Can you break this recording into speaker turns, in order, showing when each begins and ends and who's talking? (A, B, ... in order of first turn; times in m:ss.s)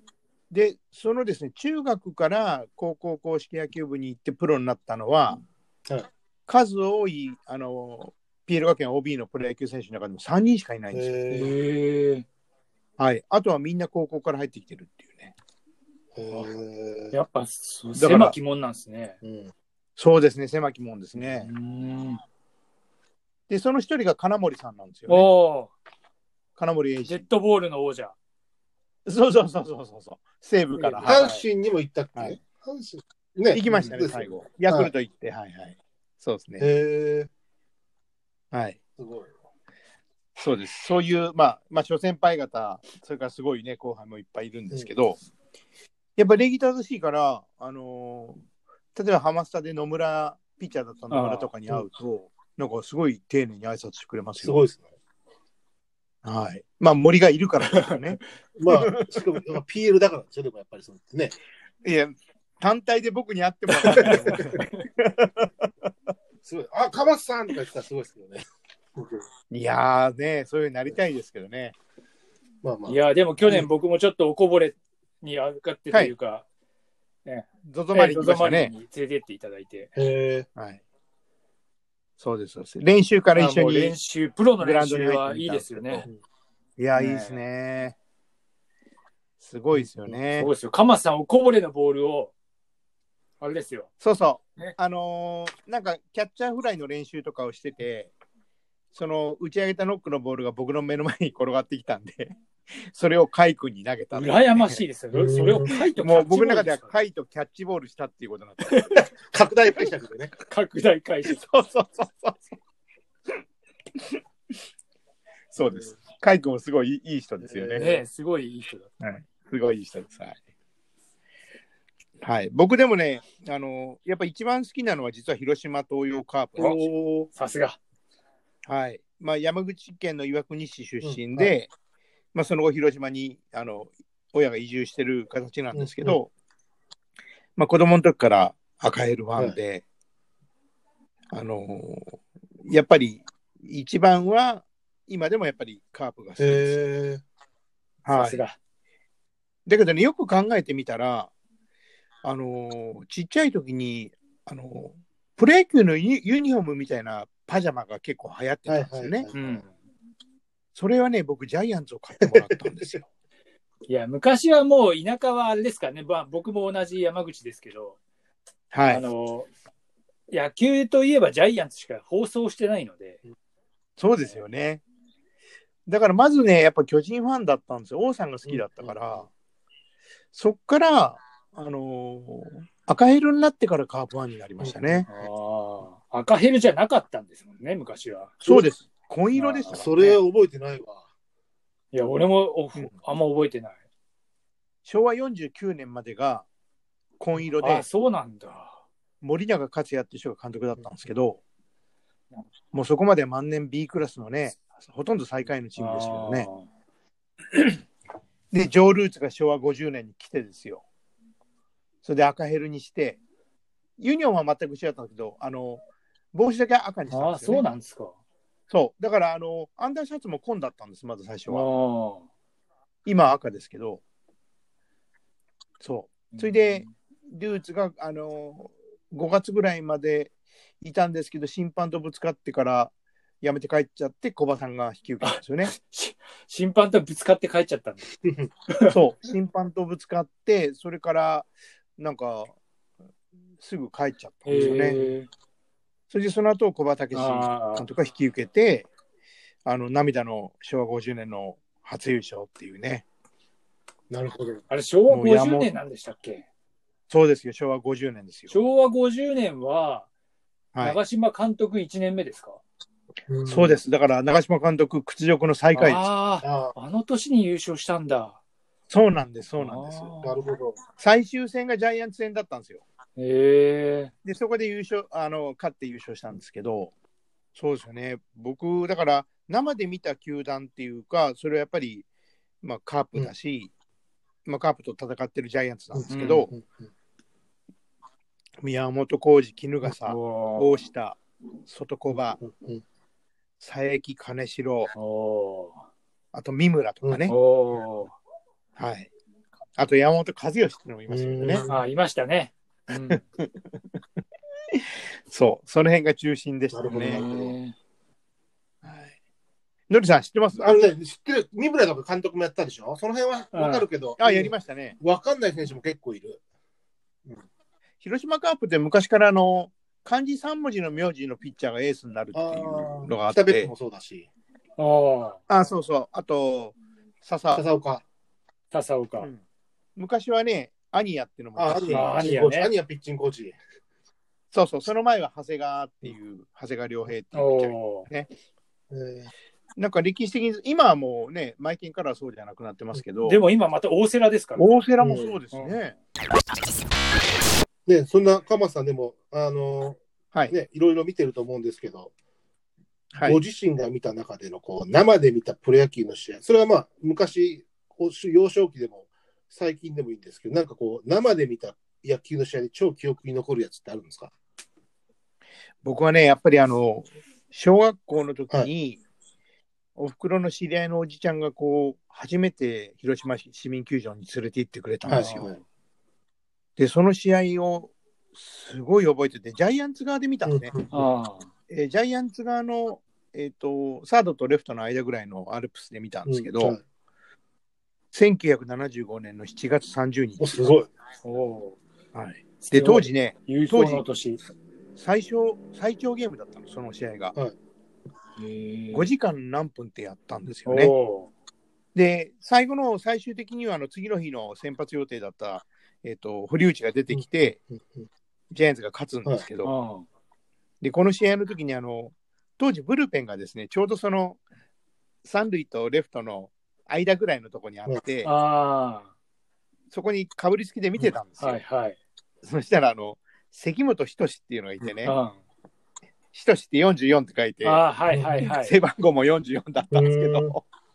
0:00.5-0:05.4 A
0:06.5-0:11.1 A
0:10.9-0:11.6 B
0:11.3-0:12.2 C
0:13.0-0:15.3 A
0:16.1-0:17.1 B
0:17.1-0:19.2 C
0:17.9-0:18.4 A
0:19.2-0:19.5 B
0:20.0-0:21.5 A
0:21.2-0:22.2 C
0:23.5-0:25.3 A
0:25.1-0:25.7 C
0:26.6-0:27.2 A
0:27.0-0:28.2 C
0:29.0-0:31.3 A
0:30.7-0:31.4 C
0:31.0-0:34.9 B
0:33.5-0:36.7 A
0:33.7-0:34.0 C
0:36.6-0:37.3 B
0:38.5-0:38.8 A
0:39.0-0:39.3 B
0:40.4-0:45.2 A
0:46.2-0:48.4 A
0:48.9-0:54.6 A
0:51.1-0:51.5 C
0:54.4-0:54.9 B
0:56.2-0:59.2 A
0:57.6-0:58.0 C
0:58.6-1:01.4 B
1:01.8-1:05.7 A
1:03.9-1:04.8 C
1:04.0-1:04.6 B
1:06.4-1:08.4 B
1:09.0-1:09.2 B
1:09.5-1:11.7 A
1:12.6-1:13.7 B
1:12.8-1:16.4 C
1:17.2-1:19.9 C
1:17.6-1:18.7 A
1:20.0-1:20.5 B
1:20.6-1:20.8 A
1:22.2-1:24.0 A
1:23.3-1:26.0 C
1:24.6-1:26.1 A
1:26.8-1:27.9 A
1:26.9-1:27.4 C
1:29.4-1:30.5 A
1:29.7-1:30.2 B
1:30.4-1:32.3 C
1:33.4-1:33.9 C
1:34.0-1:38.1 A
1:38.9-1:44.8 A
1:44.1-1:46.9 C
1:45.1-1:45.7 B
1:46.0-1:48.9 A
1:48.6-1:49.0 C
1:48.9-1:50.3 B
1:50.4-1:51.4 C
1:51.2-1:52.5 A
1:55.5-1:58.0 A
1:57.4-1:58.0 B
1:57.7-1:59.2 C
1:59.2-2:00.4 A
2:02.2-2:06.8 A
2:06.6-2:07.3 B
2:07.3-2:07.8 C
2:08.6-2:11.7 A
2:11.0-2:11.5 B
2:12.3-2:16.3 A
2:15.7-2:16.2 B
2:17.6-2:19.8 A
2:21.3-2:26.8 A
2:26.4-2:27.2 B
2:28.0-2:28.4 A
2:28.1-2:28.6 C
2:29.6-2:31.3 A
2:32.2-2:39.3 A
2:38.7-2:39.6 B
2:39.3-2:39.7 C
2:40.7-2:43.0 A
2:42.2-2:43.0 B
2:43.9-2:48.0 C
2:48.7-2:49.0 A
2:48.8-2:49.5 C
2:50.3-2:53.2 C
2:54.0-2:54.8 A
2:55.9-2:59.3 A
2:58.4-2:59.2 B
3:00.3-3:05.1 A
3:04.6-3:05.2 B
3:05.1-3:08.3 C
3:08.4-3:09.9 A
3:09.3-3:10.2 C
3:09.7-3:11.0 B
3:11.9-3:13.8 C
3:14.8-3:16.5 A
3:17.2-3:17.8 A
3:17.6-3:18.8 C
3:19.2-3:21.4 A
3:22.7-3:26.5 A
3:25.8-3:26.7 C
3:28.5-3:30.8 A
3:32.0-3:33.2 A
3:34.0-3:35.8 A
3:36.3-3:37.6 A
3:37.1-3:38.2 C
3:38.7-3:41.6 A
3:41.5-3:42.2 C
3:43.0-3:44.0 A
3:45.8-3:55.7 A
3:46.3-3:46.9 C
3:55.2-3:58.1 C
3:58.2-3:58.5 B
3:58.7-3:59.0 C
3:58.9-4:02.5 A
4:03.6-4:05.1 A
4:04.4-4:05.3 C
4:06.1-4:08.9 A
4:07.1-4:07.9 C
4:09.6-4:13.0 A
4:14.1-4:14.6 B
4:14.7-4:16.4 C
4:15.1-4:15.7 A
4:17.1-4:18.6 A
4:18.5-4:20.1 C
4:20.7-4:21.0 A
4:20.8-4:22.6 C
4:23.3-4:23.8 B
4:23.4-4:26.1 A
4:25.7-4:28.4 C
4:26.4-4:26.7 B
4:28.9-4:30.1 A
4:29.6-4:30.5 C
4:30.2-4:30.8 B
4:31.0-4:32.8 A
4:33.2-4:34.1 C
4:34.2-4:36.9 A
4:37.5-4:42.0 A
4:42.6-4:43.7 A
4:44.4-4:46.5 A
4:45.9-4:46.7 B
4:46.1-4:46.5 C
4:48.6-4:52.4 A
4:49.8-4:50.8 C
4:52.4-4:52.8 B
4:53.6-4:54.9 A
4:54.9-4:55.8 C
4:56.3-4:57.3 A
4:57.0-4:57.3 B
4:57.3-4:58.2 C
4:58.8-4:59.1 A
4:59.8-5:01.6 A
5:01.1-5:01.8 B
5:01.6-5:03.2 C
5:03.1-5:03.5 A
5:04.7-5:07.3 A
5:06.7-5:07.6 B
5:06.9-5:07.8 C
5:08.8-5:09.1 A
5:09.9-5:10.9 A
5:10.5-5:16.4 B
5:13.5-5:13.9 C
5:14.2-5:15.0 A
5:18.0-5:23.7 A
5:22.3-5:24.3 B
5:24.8-5:25.4 C
5:25.5-5:27.6 A
5:27.5-5:28.0 B
5:28.7-5:29.3 C
5:30.0-5:32.2 A
5:31.6-5:33.6 B
5:31.9-5:32.7 C
5:34.5-5:38.3 A
5:37.3-5:38.1 C
5:38.9-5:39.3 B
5:39.8-5:43.4 A
5:43.2-5:44.8 C
5:44.6-5:45.9 A
5:45.0-5:45.4 B
5:45.5-5:45.8 C
5:47.9-5:52.1 B
5:53.1-5:53.4 A
5:53.2-6:04.3 B
6:05.8-6:09.0 A
6:10.0-6:15.5 A
6:15.0-6:15.6 B
6:15.1-6:15.5 C
6:16.8-6:20.7 A
6:20.4-6:21.0 B
6:20.9-6:21.5 C
6:21.7-6:26.8 A
6:26.2-6:26.8 B
6:28.1-6:30.7 A
6:30.4-6:30.9 B
6:31.2-6:31.8 C
6:32.1-6:34.0 A
6:32.6-6:34.4 C
6:35.0-6:37.4 A
6:38.4-6:39.1 C
6:38.9-6:40.9 A
6:40.6-6:41.3 C
6:41.9-6:47.6 A
6:47.1-6:48.1 B
6:48.5-6:49.7 A
6:49.6-6:50.0 C
6:50.8-6:54.4 A
6:55.2-6:58.3 A
6:58.2-6:59.1 C
6:59.9-7:01.6 A
7:01.4-7:02.0 C
7:02.4-7:05.2 A
7:05.0-7:05.4 C
7:06.3-7:07.8 A
7:07.6-7:08.7 C
7:08.1-7:08.4 B
7:08.4-7:10.6 A
7:09.9-7:10.6 B